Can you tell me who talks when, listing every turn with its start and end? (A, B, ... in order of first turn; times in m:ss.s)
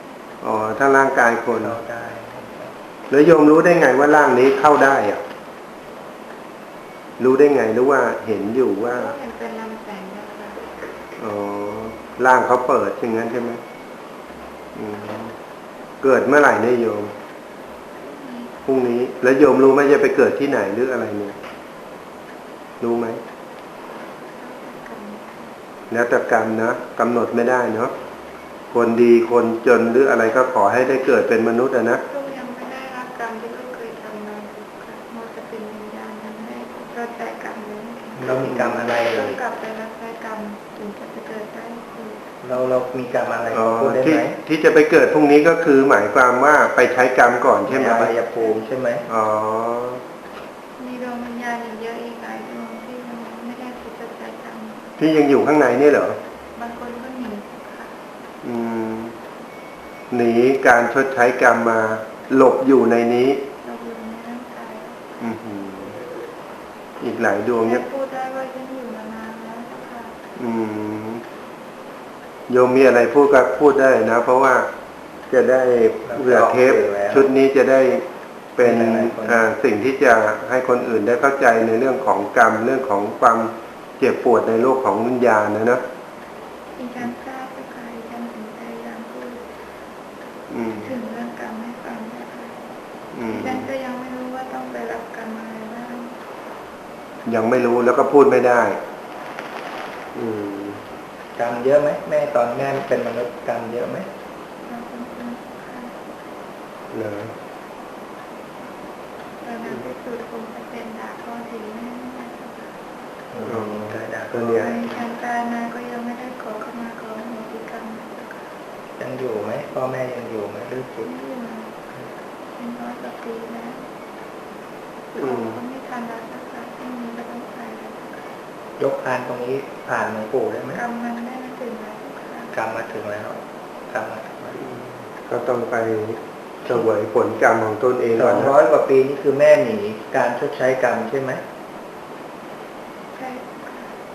0:00.4-0:01.8 A
0:01.5-0:02.7 B
0:03.1-0:05.2 A
0:07.2-0:09.1 A
0:08.8-0:10.6 C
0:11.2-0:13.6 A
0:14.7-0:15.3 A
0:16.0-0:17.1 A
0:18.0-0:18.6 C
0:18.6-0:21.3 A
0:22.8-0:23.2 A
0:24.2-0:25.5 C
0:25.9-0:27.9 A
0:28.7-0:32.0 A
0:32.0-0:38.3 C
0:38.2-0:39.4 B
0:38.3-0:39.0 A
0:39.0-0:42.2 C
0:42.4-0:44.4 B
0:43.5-0:48.1 A
0:47.6-0:49.0 B
0:48.2-0:48.6 C
0:49.1-0:50.0 A
0:50.8-0:55.0 C
0:55.0-0:56.2 A
0:56.6-0:57.9 C
0:58.4-0:59.1 A
1:00.1-1:03.4 A
1:03.6-1:05.0 C
1:05.2-1:06.0 A
1:07.0-1:07.8 A
1:07.6-1:10.2 C
1:10.4-1:11.2 A
1:12.5-1:14.7 A
1:15.3-1:18.0 A
1:16.0-1:17.3 B
1:18.6-1:25.8 A
1:18.6-1:19.4 B
1:26.8-1:29.4 C
1:30.5-1:30.9 A
1:30.8-1:32.7 C
1:33.1-1:33.6 A
1:33.3-1:36.2 C
1:37.2-1:38.8 A
1:40.1-1:40.8 A
1:41.4-1:44.1 B
1:44.7-1:46.1 C
1:46.9-1:47.3 A
1:49.4-1:52.7 C
1:53.3-1:54.9 B
1:53.4-1:54.8 A
1:54.5-1:58.4 C
1:59.0-2:01.1 B
2:01.0-2:01.8 C
2:02.6-2:03.8 C
2:05.1-2:08.2 C
2:05.2-2:05.6 A
2:08.8-2:10.8 B
2:10.7-2:12.6 C
2:12.5-2:14.6 B
2:14.6-2:18.6 A
2:18.1-2:21.4 B
2:23.2-2:23.9 C